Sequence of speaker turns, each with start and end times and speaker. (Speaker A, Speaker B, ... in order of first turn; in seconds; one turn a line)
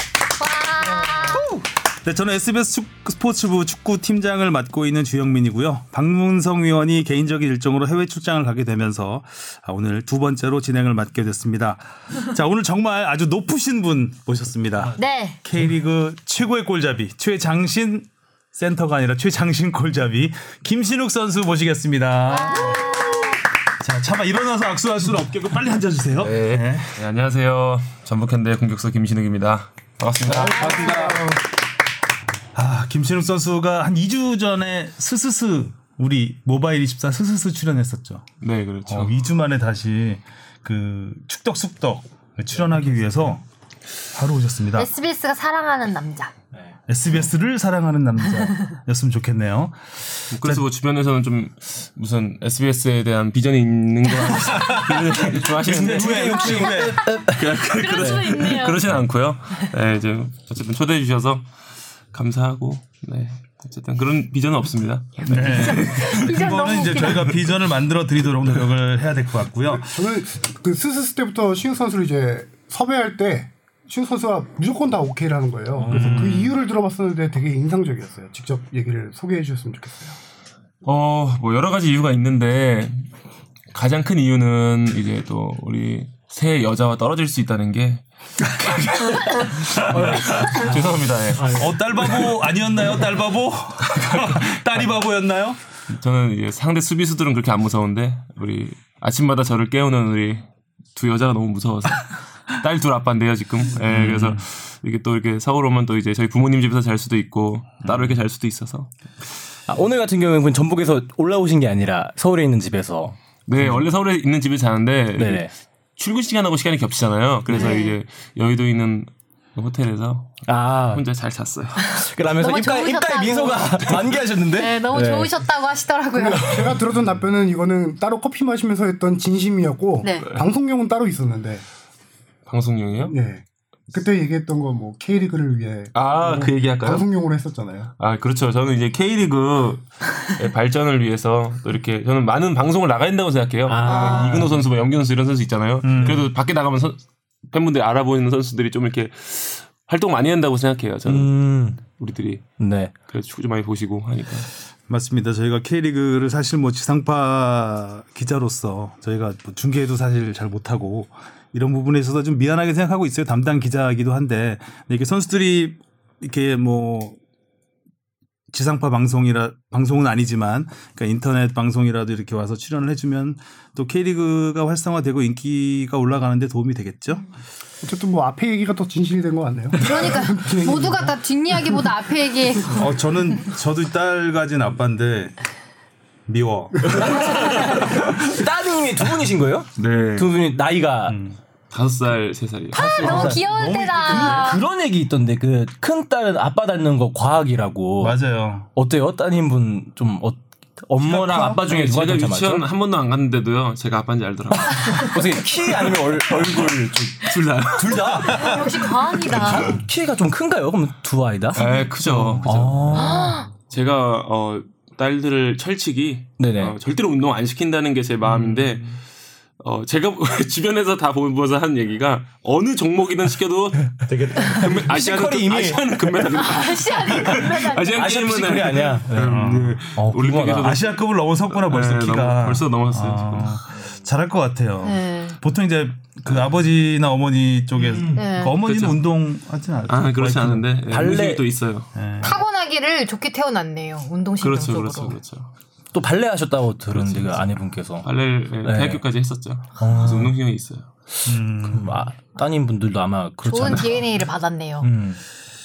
Speaker A: 0.4-1.4
Speaker B: 1.1-1.6
Speaker C: 2.0-23.1
Speaker A: 15.0-15.4
Speaker A: 22.3-23.4
Speaker C: 23.8-27.0
Speaker D: 26.2-30.8
Speaker B: 30.2-31.4
Speaker E: 30.4-31.3
Speaker A: 30.6-31.0
Speaker C: 32.5-38.2
Speaker D: 38.4-39.1
Speaker C: 38.9-43.4
Speaker C: 44.1-44.9
Speaker A: 44.8-46.3
Speaker C: 46.9-50.6
Speaker D: 50.3-56.5
Speaker B: 54.5-58.4
Speaker C: 55.6-57.0
Speaker A: 56.4-58.8
Speaker D: 57.2-61.4
Speaker D: 62.1-66.2
Speaker A: 65.2-67.3
Speaker C: 65.3-69.9
Speaker E: 69.7-80.2
Speaker B: 75.8-76.4
Speaker C: 75.9-76.5
Speaker D: 80.8-83.1
Speaker D: 83.7-91.6
Speaker B: 89.7-91.7
Speaker C: 91.5-95.6
Speaker D: 93.8-94.5
Speaker D: 95.9-108.9
Speaker C: 103.9-104.4
Speaker B: 109.7-113.8
Speaker D: 113.5-121.9
Speaker B: 115.2-115.5
Speaker B: 117.5-117.7
Speaker A: 117.5-118.0
Speaker B: 120.4-121.0
Speaker A: 121.8-123.8
Speaker B: 121.9-125.3
Speaker A: 124.5-126.8
Speaker E: 126.1-131.6
Speaker A: 130.0-130.2
Speaker D: 132.5-133.1
Speaker E: 133.0-137.9
Speaker D: 135.9-137.1
Speaker D: 138.0-154.5
Speaker B: 143.7-144.6
Speaker A: 143.8-144.4
Speaker C: 145.8-146.3
Speaker B: 151.1-151.8
Speaker B: 152.6-152.9
Speaker C: 154.9-167.2
Speaker C: 168.5-177.3
Speaker E: 177.8-181.1
Speaker A: 179.8-182.9
Speaker C: 182.7-185.3
Speaker C: 186.3-187.4
Speaker B: 186.9-191.2
Speaker D: 187.8-188.1
Speaker D: 189.8-190.4
Speaker C: 191.1-191.4
Speaker D: 191.7-193.2
Speaker A: 192.7-194.6
Speaker B: 192.7-198.2
Speaker C: 193.0-194.6
Speaker C: 198.0-198.7
Speaker B: 198.7-202.7
Speaker D: 201.0-205.1
Speaker B: 204.6-213.4
Speaker D: 207.2-208.5
Speaker C: 207.8-208.6
Speaker A: 208.2-209.7
Speaker D: 209.5-209.8
Speaker D: 211.5-218.9
Speaker C: 212.0-212.6
Speaker A: 212.9-213.5
Speaker B: 216.4-216.7
Speaker C: 218.3-218.7
Speaker D: 219.6-230.9
Speaker B: 224.0-225.8
Speaker A: 226.3-228.1
Speaker B: 227.9-230.7
Speaker C: 229.2-229.8
Speaker C: 230.5-240.7
Speaker D: 231.5-233.6
Speaker A: 234.8-235.4
Speaker B: 237.8-238.2
Speaker A: 238.1-238.6
Speaker D: 238.5-239.0
Speaker D: 239.9-241.9
Speaker B: 240.9-241.4
Speaker C: 241.9-242.4
Speaker A: 242.2-245.2
Speaker D: 244.4-245.5
Speaker B: 245.9-248.1
Speaker D: 246.9-247.4
Speaker D: 248.0-250.9
Speaker B: 248.6-249.0
Speaker B: 249.8-250.3
Speaker C: 251.2-252.0
Speaker B: 251.6-254.1
Speaker A: 253.4-254.9
Speaker B: 254.8-255.2